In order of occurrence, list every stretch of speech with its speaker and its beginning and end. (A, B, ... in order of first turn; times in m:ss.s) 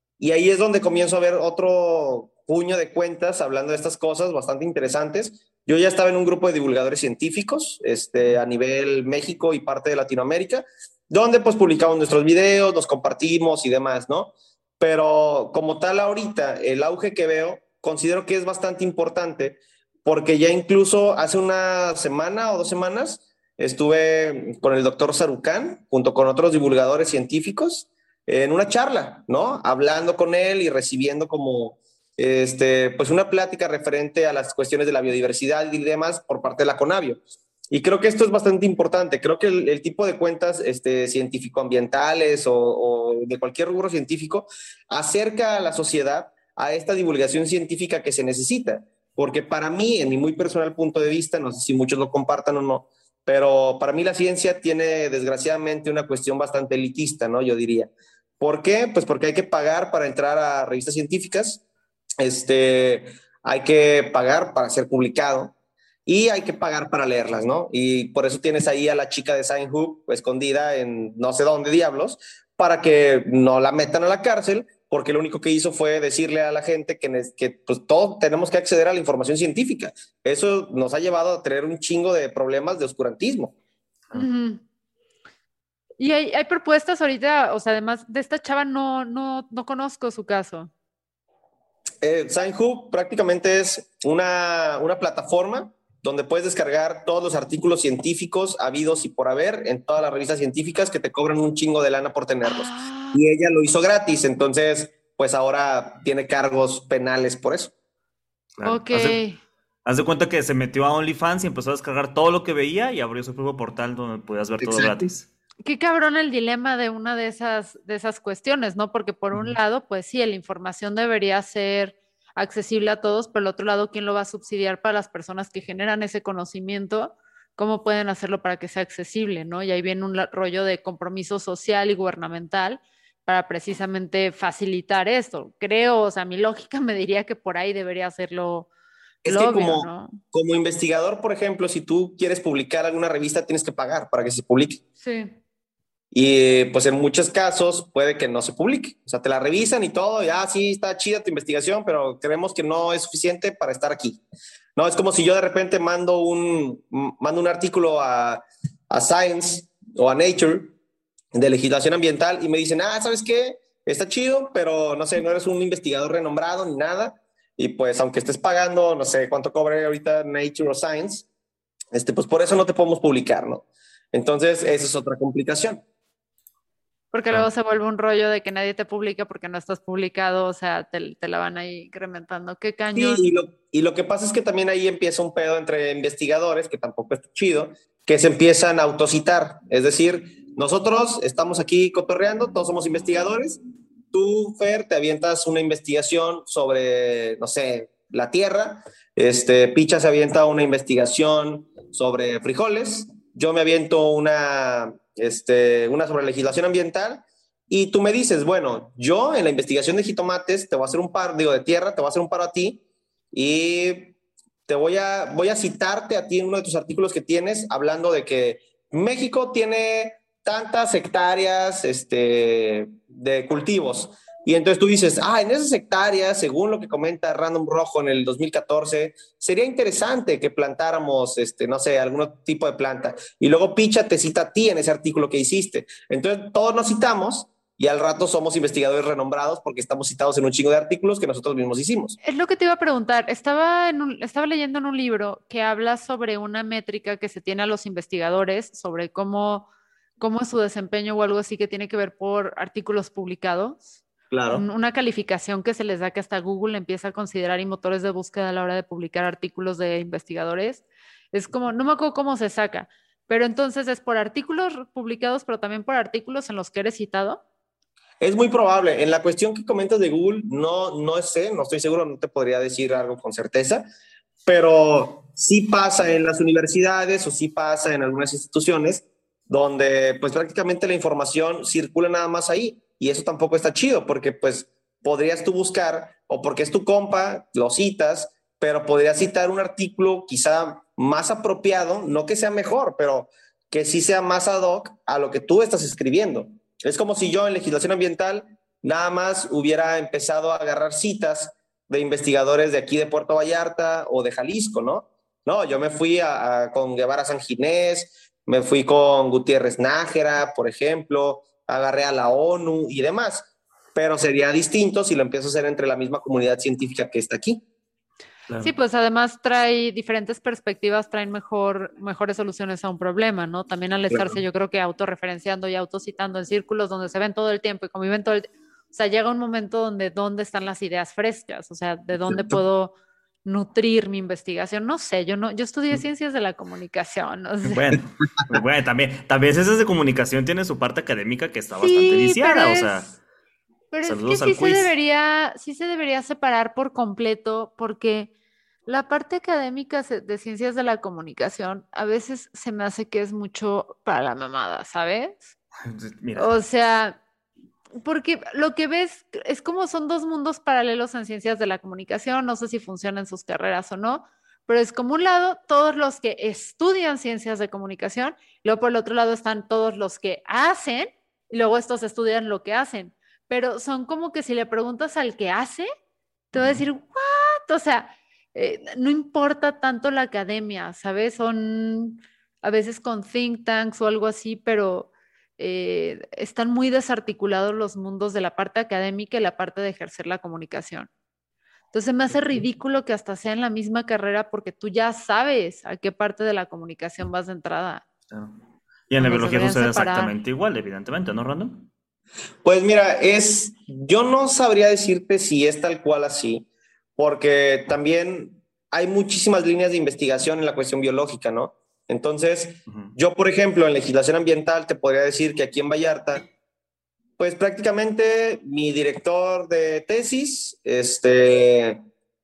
0:00.2-1:01.6 A
1:02.2-1:05.5 A
1:06.1-1:23.5 A
1:24.1-1:24.6 B
1:26.0-1:30.7 B
1:32.0-1:47.7 A
1:42.4-1:43.2 B
1:48.6-1:49.2 C
1:48.6-1:49.4 B
1:49.8-1:55.3 C
1:54.6-1:55.0 A
1:55.6-2:18.7 B
2:19.2-2:24.8 A
2:19.3-2:20.2 B
2:25.0-2:25.4 B
2:26.1-2:34.2 A
2:34.8-2:40.8 A
2:41.3-2:51.3 A
2:51.9-2:55.8 A
2:57.1-3:03.2 B
3:03.0-3:13.6 A
3:14.1-3:32.8 A
3:33.3-3:34.2 A
3:34.7-4:02.2 A
4:02.2-4:09.7 B
4:10.2-4:13.9 B
4:14.3-4:14.6 A
4:14.5-4:27.4 B
4:28.2-4:33.9 A
4:34.5-5:17.6 A
5:18.6-5:32.9 B
5:33.4-5:37.8 B
5:37.7-5:43.2 C
5:41.8-5:43.1 B
5:43.9-5:48.3 B
5:44.0-5:44.9 C
5:48.9-5:55.6 B
5:55.9-5:56.6 C
5:56.4-5:57.2 B
5:58.0-6:15.9 B
6:16.5-6:31.1 B
6:16.5-6:16.8 C
6:31.9-6:38.0 B
6:39.1-6:41.9 C
6:39.2-6:40.3 B
6:42.6-6:46.7 A
6:47.2-6:56.4 A
6:57.4-7:02.0 A